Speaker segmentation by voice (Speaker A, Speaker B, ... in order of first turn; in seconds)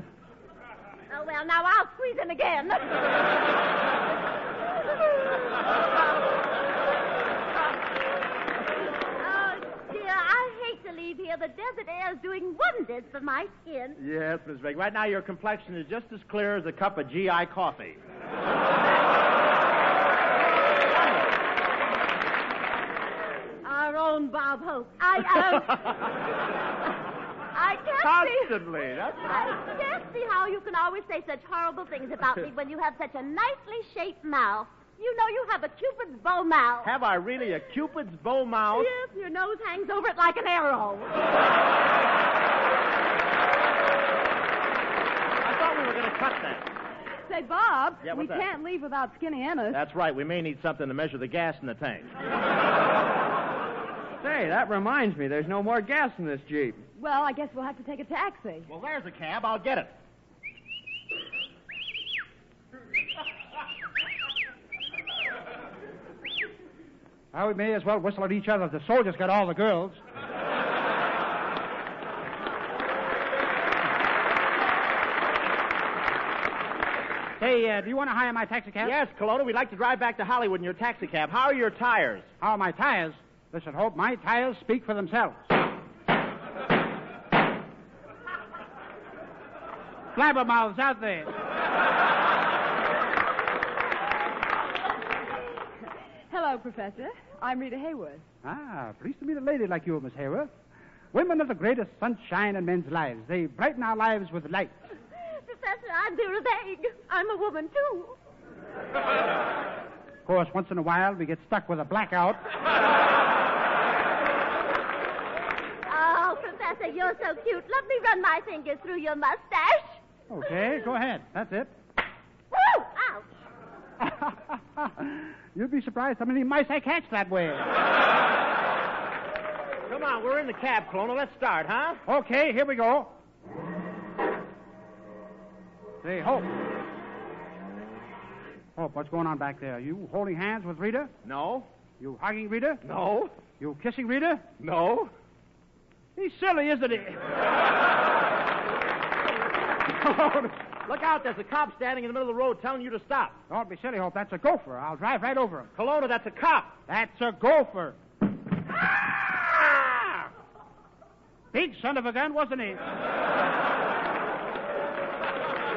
Speaker A: 1.1-3.1, 9.2-14.0, 23.6-26.0, 27.5-36.9, 38.7-41.3, 105.2-108.2, 115.9-120.0, 122.5-123.3
Speaker B: 14.0-18.0, 20.9-21.3, 25.4-25.7, 28.0-29.6, 36.8-38.9, 45.4-46.7, 48.0-48.5, 49.7-52.1, 58.7-59.9, 78.8-82.3, 129.9-132.0, 141.2-141.7, 142.8-143.3, 144.6-145.1, 149.8-153.4, 155.8-156.8
Speaker C: 47.3-49.8, 57.0-58.7, 96.3-98.2
Speaker D: 54.2-56.8
Speaker E: 67.3-70.0, 77.4-78.9, 82.4-85.5, 90.1-91.3, 98.4-100.5, 101.1-104.8, 110.2-112.4, 120.3-121.7, 124.0-127.7, 132.1-133.1, 136.0-136.5, 138.8-141.1, 142.0-142.8, 143.6-144.4, 146.2-147.2, 153.5-155.7, 156.9-157.9, 161.5-162.8